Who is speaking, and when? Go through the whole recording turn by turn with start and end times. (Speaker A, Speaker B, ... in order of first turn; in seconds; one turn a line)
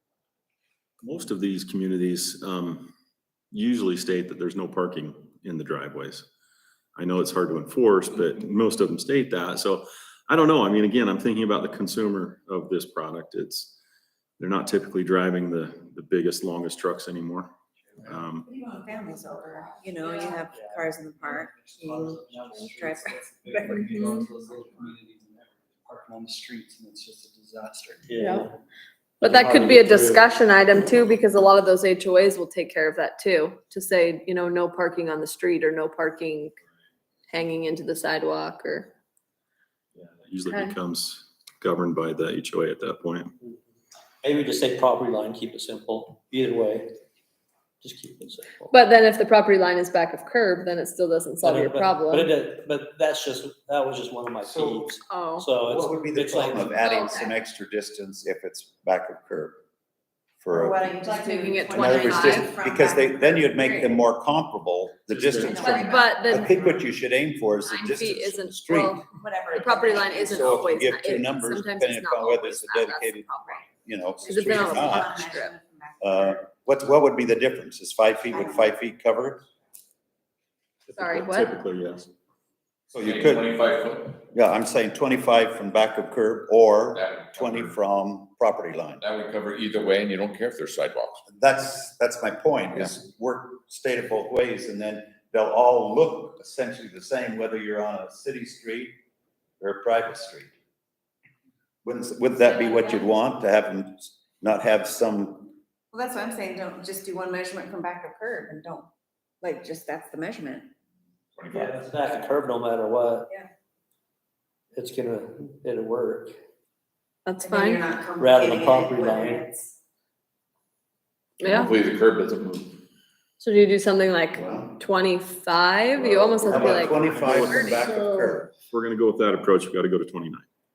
Speaker A: 1.0-1.9
Speaker B: 1.4-2.9
Speaker B: 3.5-6.2
Speaker B: 7.0-13.7
Speaker B: 14.4-17.5
Speaker B: 18.0-18.4
Speaker A: 18.1-19.1
Speaker C: 18.5-24.2
Speaker A: 19.7-23.0
Speaker D: 20.1-28.2
Speaker A: 23.5-24.2
Speaker E: 23.8-24.2
Speaker A: 28.1-28.5
Speaker E: 28.2-28.4
Speaker E: 29.2-36.5
Speaker A: 29.2-30.2
Speaker E: 37.3-38.9
Speaker B: 40.0-43.3
Speaker E: 40.5-40.8
Speaker A: 44.2-46.9
Speaker A: 47.8-48.7
Speaker E: 48.7-52.3
Speaker A: 51.4-56.7
Speaker F: 54.4-54.9
Speaker E: 55.1-55.5
Speaker F: 55.6-59.6
Speaker E: 56.7-57.3
Speaker F: 60.4-60.8
Speaker C: 60.6-63.8
Speaker E: 61.1-62.5
Speaker A: 61.1-62.5
Speaker F: 61.7-69.0
Speaker A: 65.3-65.8
Speaker C: 65.5-66.5
Speaker E: 65.6-66.5
Speaker E: 67.7-75.5
Speaker C: 69.2-70.5
Speaker A: 69.9-70.2
Speaker F: 70.2-75.1
Speaker C: 74.5-76.3
Speaker F: 76.0-79.4
Speaker C: 78.3-78.7
Speaker B: 80.9-82.0
Speaker E: 81.0-81.5
Speaker F: 82.9-83.5
Speaker G: 83.0-84.2
Speaker F: 84.3-89.0
Speaker G: 86.9-87.8
Speaker G: 89.0-91.2
Speaker F: 91.3-99.0
Speaker F: 99.6-100.5
Speaker F: 101.8-105.6
Speaker E: 102.4-103.1
Speaker C: 105.9-108.9
Speaker C: 109.4-110.7
Speaker G: 111.4-112.2
Speaker A: 111.5-113.3
Speaker A: 114.7-116.3
Speaker E: 117.2-117.8
Speaker A: 117.5-119.7
Speaker C: 117.5-119.7
Speaker E: 121.4-121.7
Speaker G: 121.4-122.8
Speaker E: 123.4-128.3
Speaker F: 124.3-124.7
Speaker B: 126.0-127.8
Speaker F: 126.5-128.5
Speaker B: 128.7-130.4